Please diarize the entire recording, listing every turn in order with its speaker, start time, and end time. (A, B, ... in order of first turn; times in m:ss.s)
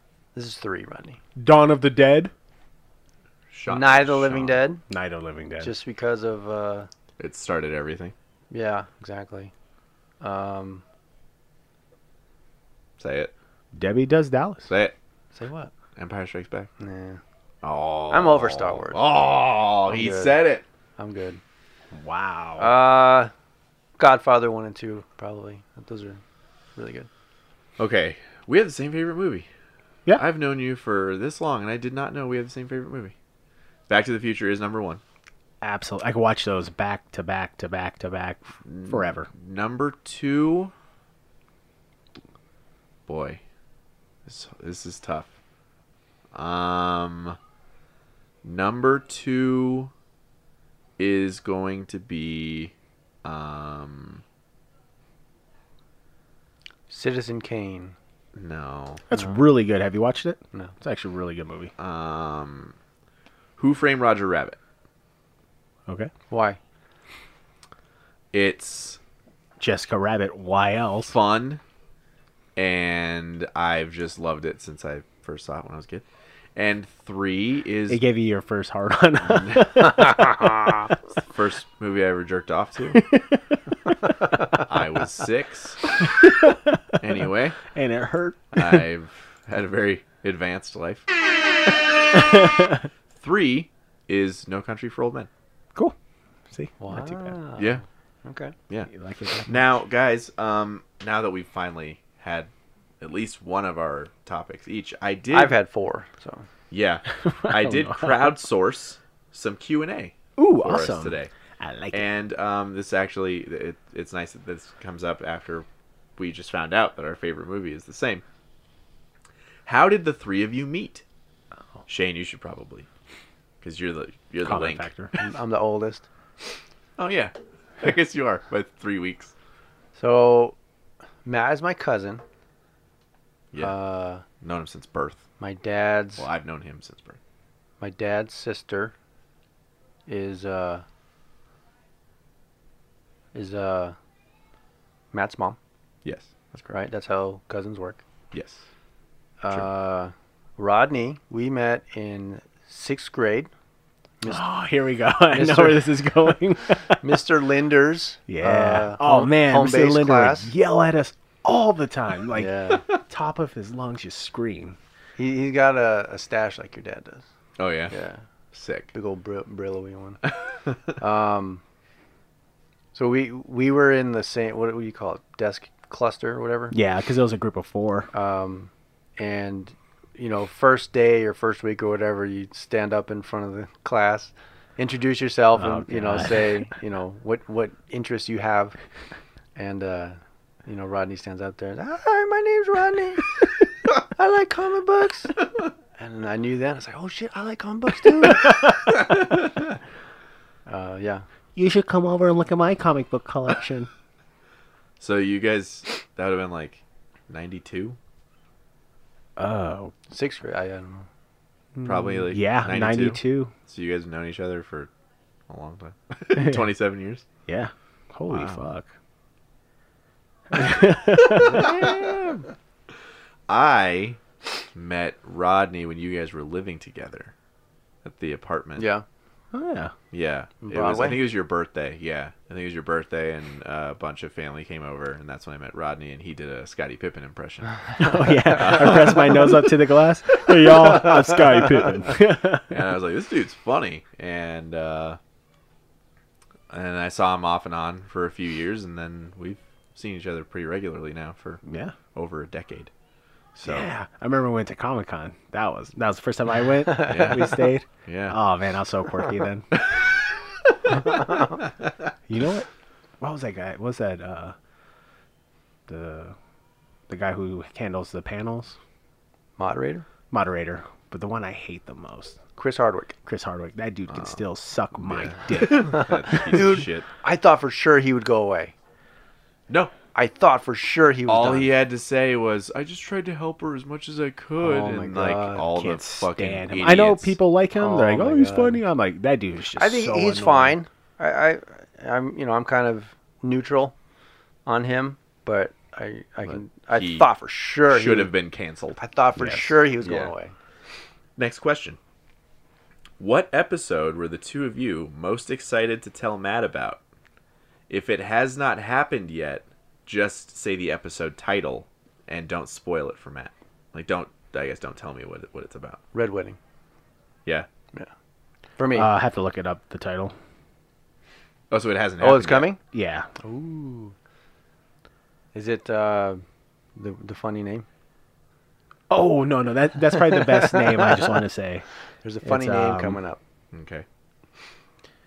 0:00.4-0:01.2 A
0:01.4-0:02.3 B
0:03.5-0:04.6 C
0:03.7-0:04.8 A
0:04.9-0:05.7 B
0:05.6-0:06.9 A
0:07.2-0:08.1 C
0:08.5-0:09.5 A
0:10.2-0:10.8 A
0:13.0-0:13.3 C
0:13.7-0:14.7 B
0:14.7-0:15.0 C
0:15.3-0:15.7 A
0:16.0-0:16.7 C
0:16.8-0:17.2 A
0:17.6-0:20.6 C
0:18.1-0:19.0 A
0:19.9-0:20.4 A
0:21.0-0:21.4 A
0:21.9-0:22.7 B
0:22.6-0:23.3 A
0:24.0-0:26.2 A
0:26.8-0:27.1 A
0:27.8-0:29.5 C
0:30.2-0:33.1 C
0:33.9-0:35.0 C
0:35.6-0:39.3 B
0:38.6-0:40.7 C
0:43.1-0:43.4 C
0:44.3-0:45.3 C
0:46.3-0:47.4 C
0:48.4-0:49.9 C
0:51.0-0:52.7 C
0:53.2-0:54.2 C
0:56.9-0:58.0 A
0:58.4-0:59.0 C
0:59.1-1:01.7 B
1:01.8-1:02.8 C
1:03.6-1:04.6 C
1:06.3-1:06.6 A
1:08.3-1:09.0 C
1:09.6-1:11.1 B
1:11.1-1:11.6 C
1:12.6-1:18.0 C
1:17.9-1:20.9 B
1:19.3-1:19.9 C
1:21.3-1:23.0 C
1:22.9-1:23.9 B
1:24.5-1:25.9 C
1:26.1-1:27.0 B
1:27.0-1:27.6 C
1:27.7-1:28.9 B
1:28.5-1:31.1 C
1:32.1-1:32.8 B
1:33.2-1:35.3 C
1:36.5-1:37.4 B
1:36.8-1:38.6 A
1:37.6-1:37.8 C
1:38.9-1:39.6 B
1:39.5-1:45.6 C
1:45.3-1:46.5 A
1:46.7-1:51.3 C
1:47.3-1:48.3 B
1:50.4-1:52.0 B
1:51.9-1:55.7 C
1:56.2-1:58.2 C
1:59.7-2:01.0 C
2:01.9-2:02.9 C
2:03.6-2:04.9 C
2:04.4-2:05.1 B
2:05.2-2:06.1 A
2:07.0-2:09.3 C
2:10.0-2:10.6 A
2:11.2-2:12.2 A
2:13.6-2:14.2 A
2:14.4-2:15.2 C
2:15.4-2:16.3 A
2:16.2-2:17.2 C
2:17.8-2:18.9 A
2:20.1-2:20.8 A
2:23.3-2:24.0 A
2:25.1-2:25.6 A
2:26.0-2:26.7 C
2:26.7-2:28.0 A
2:28.3-2:28.6 C
2:29.4-2:33.5 A
2:34.2-2:37.2 B
2:35.3-2:36.1 A
2:37.0-2:40.5 A
2:38.3-2:44.8 B
2:42.3-2:42.9 A
2:45.2-2:47.2 A
2:47.6-2:47.9 C
2:47.9-2:48.2 A
2:48.5-2:48.9 C
2:48.9-2:50.2 A
2:51.0-2:51.6 A
2:52.9-2:56.8 A
2:56.7-2:58.1 B
2:58.1-3:08.8 A
3:05.6-3:06.6 B
3:09.6-3:15.4 A
3:16.0-3:18.6 A
3:20.7-3:21.2 A
3:21.6-3:23.9 B
3:25.0-3:28.0 C
3:29.4-3:30.0 B
3:30.1-3:31.1 A
3:31.8-3:33.5 B
3:31.8-3:34.9 C
3:35.5-3:37.2 C
3:36.4-3:36.6 B
3:37.5-3:38.9 B
3:38.3-3:38.6 C
3:40.5-3:42.4 B
3:41.3-3:42.3 C
3:43.5-3:44.2 C
3:44.8-3:47.3 C
3:48.0-3:48.9 C
3:48.8-3:49.0 A
3:49.5-3:49.9 B
3:50.1-3:59.7 C
3:50.6-3:51.2 A
3:58.0-4:02.8 B
4:02.7-4:05.2 C
4:06.7-4:11.6 C
4:11.6-4:12.0 B
4:12.1-4:12.9 C
4:13.6-4:13.9 C
4:13.6-4:19.7 B
4:17.0-4:18.4 C
4:22.3-4:22.7 B
4:23.2-4:24.6 B
4:25.9-4:26.4 B
4:27.1-4:28.8 B
4:29.6-4:30.0 A
4:30.3-4:32.4 B
4:32.6-4:33.2 A
4:33.3-4:36.4 B
4:35.0-4:37.1 C
4:35.7-4:38.7 A
4:40.1-4:41.7 A
4:41.3-4:47.4 C
4:44.6-4:45.7 A
4:45.7-4:50.8 B
4:47.8-4:48.8 A
4:49.8-4:53.9 A
4:54.7-4:58.3 A
4:56.9-4:57.3 C
4:57.8-4:59.0 C
4:59.0-5:00.5 A
4:59.4-4:59.8 B
5:00.0-5:00.3 C
5:01.4-5:02.0 C
5:03.2-5:07.0 C
5:07.9-5:16.0 C
5:16.1-5:16.6 A
5:18.8-5:19.1 A
5:18.9-5:20.3 B
5:21.7-5:22.7 C
5:22.2-5:22.8 A
5:22.9-5:23.3 B
5:23.4-5:24.1 A
5:25.5-5:26.4 A
5:27.0-5:27.9 A
5:29.1-5:31.8 B
5:30.5-5:31.3 A
5:32.2-5:33.4 A
5:32.4-5:33.2 B
5:33.7-5:34.0 C